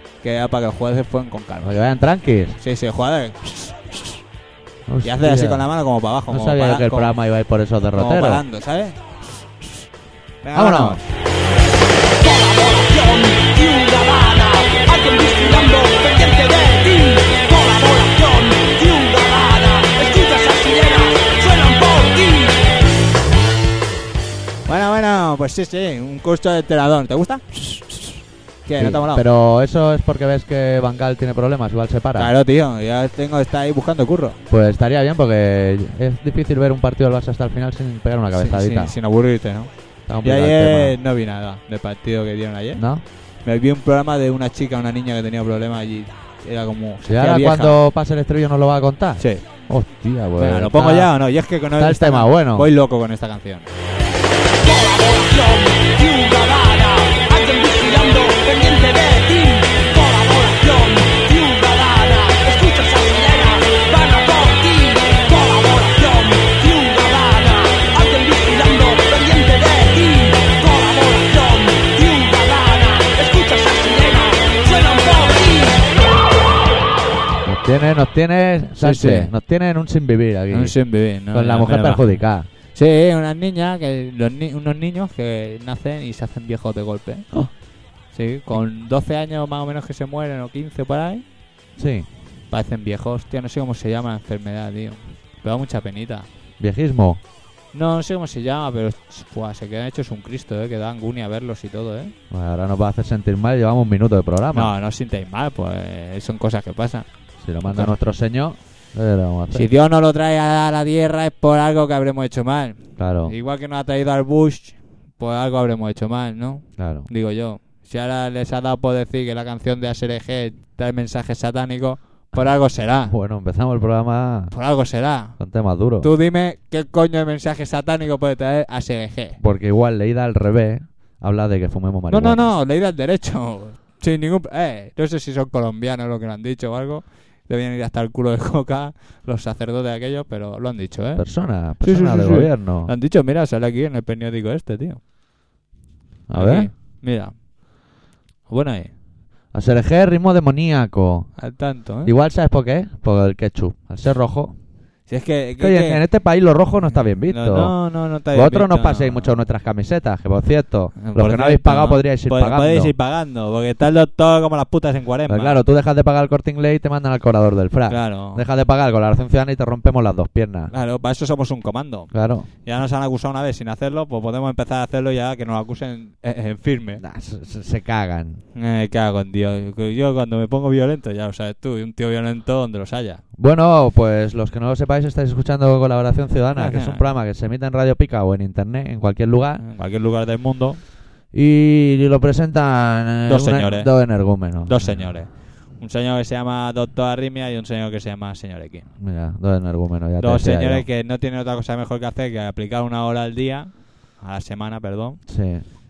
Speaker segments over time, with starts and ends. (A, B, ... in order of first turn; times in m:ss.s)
0:00.2-0:01.8 A
0:01.6-0:02.6 B
0:02.6-0:04.2 A
0:04.9-0:05.7 B
0:05.0-0:07.1 A
0:06.3-0:08.4 B
0:07.9-0:09.8 A
0:10.4-0:11.0 A
0:10.5-0:11.0 B
0:12.2-0:22.6 C
0:24.6-0:29.2 A
0:28.8-0:32.3 B
0:32.2-0:34.4 A
0:34.5-0:38.9 B
0:38.3-0:42.8 A
0:40.1-0:41.0 B
0:42.8-0:43.0 B
0:43.4-0:47.8 A
0:47.1-0:51.1 B
0:49.2-0:49.4 A
0:50.4-0:53.7 A
0:51.8-0:52.7 B
0:54.6-1:15.8 C
1:17.4-1:20.8 B
1:18.8-1:19.3 A
1:20.5-1:22.2 A
1:21.3-1:22.5 B
1:22.7-1:27.3 A
1:28.1-1:31.2 A
1:31.8-1:32.1 B
1:32.5-1:36.3 A
1:36.6-1:37.2 B
1:37.7-1:42.1 A
1:42.3-1:44.7 B
1:44.5-1:47.1 A
1:47.4-1:49.7 B
1:47.6-1:47.9 A
1:49.5-2:03.1 A
1:53.0-1:53.3 B
1:56.8-1:57.1 B
2:03.0-2:04.5 B
2:04.5-2:05.4 A
2:05.4-2:06.1 B
2:06.0-2:09.4 A
2:09.4-2:12.4 B
2:12.1-2:21.3 A
2:21.2-2:22.9 B
2:21.8-2:25.0 A
2:26.3-2:26.7 B
2:26.3-2:27.3 A
2:28.5-2:28.9 A
2:29.5-2:31.3 B
2:31.4-2:32.1 A
2:32.0-2:34.5 B
2:35.1-2:36.0 A
2:35.6-2:37.8 B
2:37.2-2:39.3 A
2:38.3-2:42.9 B
2:41.0-2:45.6 A
2:45.3-2:50.7 B
2:47.9-2:48.4 A
2:50.7-2:57.0 A
2:52.1-2:52.5 B
2:57.0-2:58.4 B
2:58.5-3:03.2 A
3:03.4-3:09.6 B
3:06.5-3:07.1 A
3:09.6-3:10.8 A
3:11.3-3:15.0 B
3:13.3-3:13.9 A
3:14.6-3:18.9 A
3:19.0-3:20.8 B
3:20.2-3:25.2 A
3:25.3-3:25.6 B